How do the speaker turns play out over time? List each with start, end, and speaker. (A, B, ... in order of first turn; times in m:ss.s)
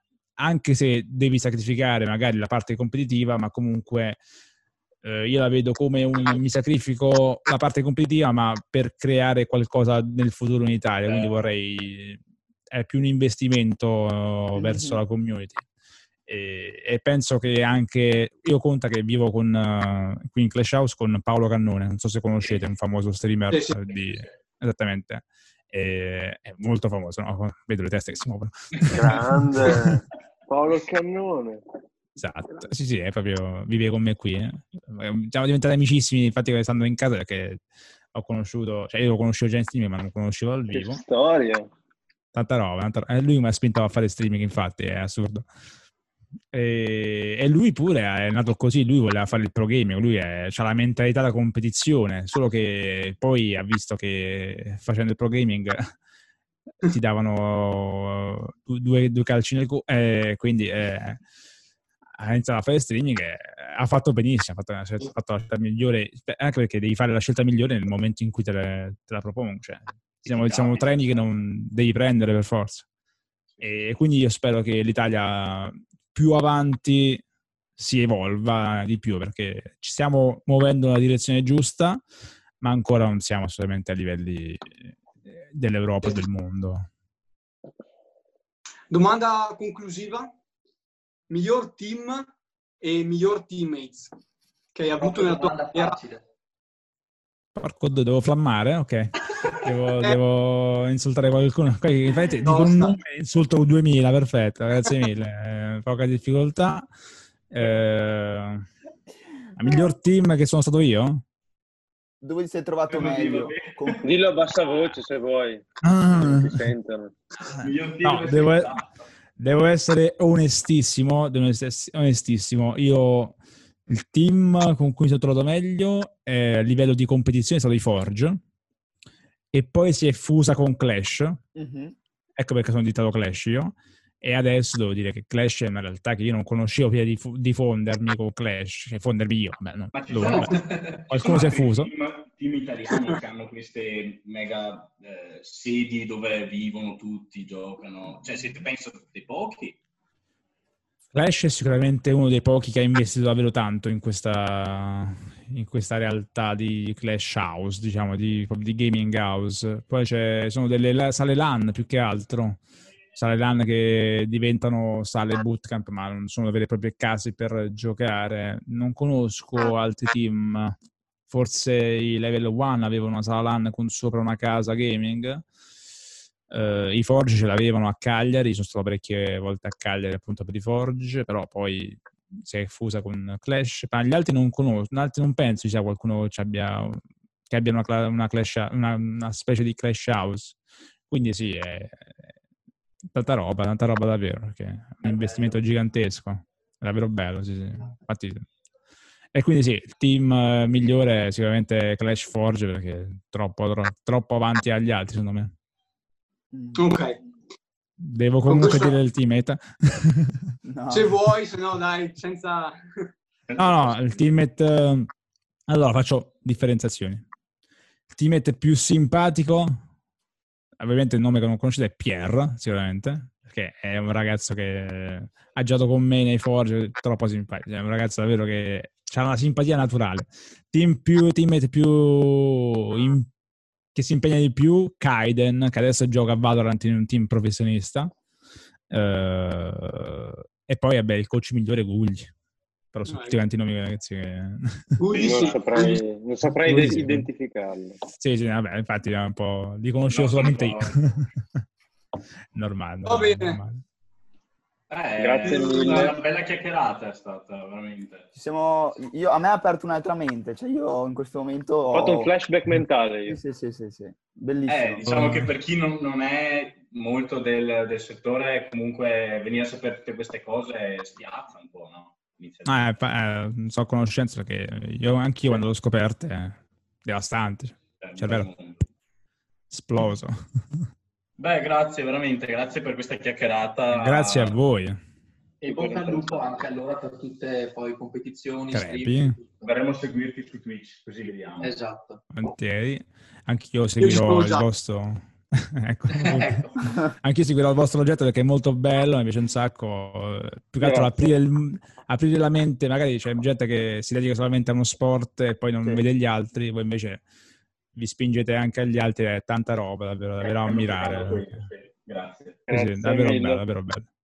0:00.4-0:04.2 A
0:05.0-0:12.2 A
0:11.0-0:11.4 B
0:12.7-0:15.6 A
0:14.5-0:15.0 C
0:16.3-0:29.8 A
0:23.5-0:23.8 D
0:28.9-0:31.6 E
0:32.2-0:41.0 A
0:40.7-0:41.7 E
0:42.3-0:45.5 A
0:46.5-0:55.9 A
0:56.8-1:01.2 A
1:02.2-1:12.8 A
1:10.2-1:11.2 B
1:13.5-1:13.9 B
1:13.6-1:17.2 A
1:17.8-1:22.0 A
1:22.6-1:26.9 A
1:28.9-1:30.3 D
1:31.3-1:32.3 D
1:32.8-1:34.1 D
1:34.7-1:36.0 D
1:35.0-1:36.2 F
1:37.6-1:46.9 A
1:42.4-1:43.0 D
1:47.5-1:48.6 A
1:49.6-1:51.2 A
1:52.2-1:54.0 C
1:52.9-1:54.0 B
1:54.0-1:57.1 E
1:55.8-1:56.6 A
1:57.5-1:58.9 B
1:57.6-1:58.8 A
1:59.4-2:08.4 A
2:09.5-2:11.4 A
2:11.5-2:12.0 C
2:12.4-2:21.9 A
2:19.9-2:29.8 B
2:20.3-2:20.6 F
2:31.1-2:42.6 A
2:43.1-2:50.8 A
2:51.3-2:55.4 A
2:56.5-3:10.6 A
3:11.1-3:12.3 A
3:13.1-3:18.5 A
3:15.1-3:15.4 B
3:19.3-3:25.5 A
3:26.5-3:26.8 C
3:26.7-3:27.2 D
3:28.0-3:30.4 A
3:28.4-3:29.0 D
3:30.6-3:31.1 C
3:30.9-3:33.1 D
3:33.5-3:33.9 B
3:33.6-3:35.1 A
3:35.7-3:37.2 A
3:38.1-3:39.8 A
3:40.8-3:53.3 A
3:53.9-3:58.1 A
3:58.9-4:02.3 A
4:02.9-4:04.9 A
4:03.0-4:03.4 D
4:05.0-4:06.0 D
4:05.1-4:05.7 B
4:05.1-4:08.0 E
4:06.6-4:07.3 A
4:08.2-4:11.3 A
4:10.0-4:11.1 B
4:12.5-4:13.8 A
4:13.0-4:13.6 D
4:14.9-4:18.3 B
4:15.2-4:16.1 E
4:18.3-4:22.3 C
4:21.9-4:23.4 E
4:23.3-4:25.0 C
4:24.6-4:32.9 B
4:25.0-4:25.5 A
4:32.6-4:38.5 A
4:38.0-4:38.8 B
4:39.7-4:40.8 A
4:41.4-4:44.6 B
4:43.9-4:45.0 A
4:45.6-4:49.6 F
4:45.6-4:46.3 E
4:48.7-4:49.4 A
4:49.6-4:51.8 B
4:51.6-4:52.2 F
4:52.3-5:07.2 A
4:54.0-4:54.6 D
4:56.1-4:56.8 F
5:00.8-5:01.3 E
5:07.9-5:11.6 A
5:10.4-5:12.6 B
5:12.7-5:13.6 E
5:12.7-5:14.1 A